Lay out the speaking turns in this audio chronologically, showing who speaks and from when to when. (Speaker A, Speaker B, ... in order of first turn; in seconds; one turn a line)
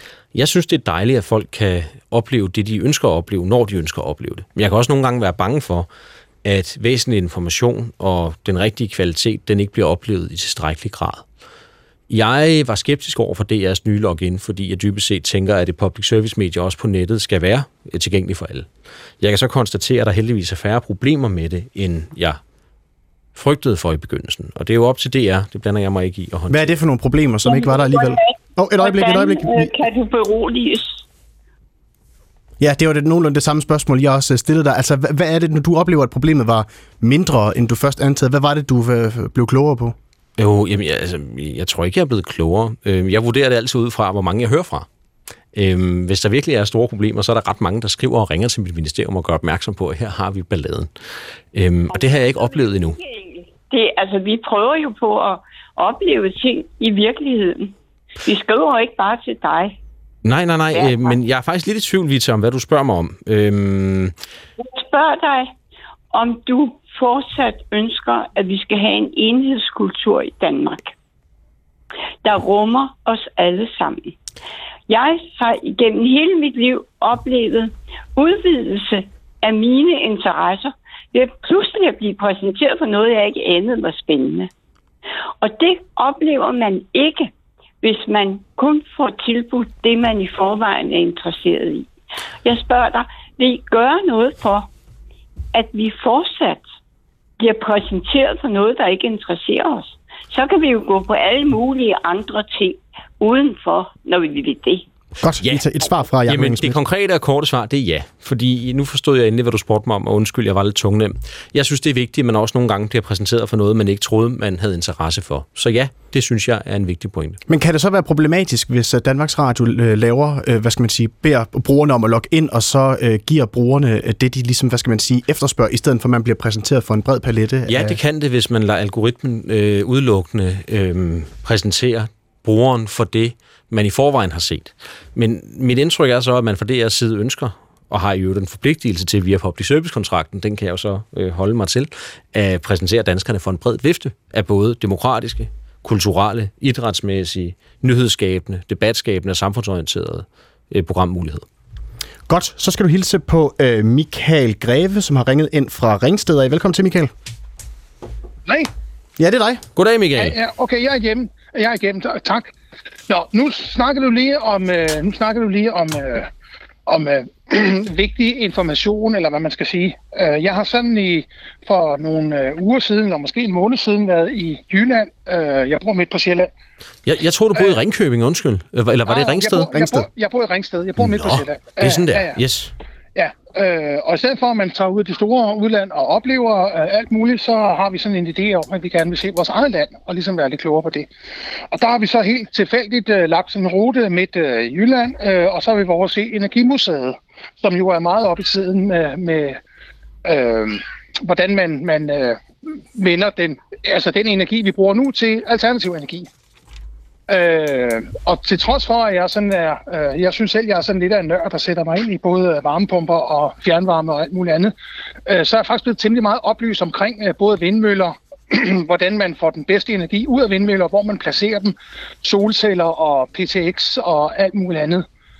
Speaker A: 0.3-5.9
Speaker A: 6.4-11.2
Speaker A: 12.1-18.7
Speaker A: 19.2-22.4
Speaker A: 23.4-26.7
Speaker B: 26.5-29.7
Speaker C: 27.4-31.0
Speaker B: 32.6-39.9
Speaker A: 40.4-44.9
Speaker A: 45.5-50.9
Speaker A: 51.5-53.0
Speaker C: 52.4-57.7
Speaker C: 58.2-59.8
Speaker A: 60.2-64.1
Speaker C: 60.7-61.1
Speaker C: 64.6-65.5
Speaker C: 66.1-70.9
Speaker C: 72.2-74.1
Speaker C: 74.9-84.5
Speaker C: 85.4-87.3
Speaker C: 87.8-91.9
Speaker C: 92.4-94.7
Speaker C: 95.5-96.6
Speaker C: 97.4-104.8
Speaker B: 105.2-106.8
Speaker A: 106.3-117.4
Speaker B: 117.5-128.0
Speaker A: 127.7-151.4
Speaker B: 152.3-157.1
Speaker B: 159.2-159.6
Speaker A: 159.7-160.4
Speaker D: 160.2-162.5
Speaker D: 163.1-166.3
Speaker D: 166.9-176.5
Speaker A: 177.1-179.7
Speaker D: 179.1-182.4
Speaker B: 179.7-180.1
Speaker A: 181.0-182.7
Speaker D: 183.1-191.1
Speaker D: 191.7-199.6
Speaker D: 200.2-206.3
Speaker D: 207.3-214.7
Speaker D: 215.3-225.0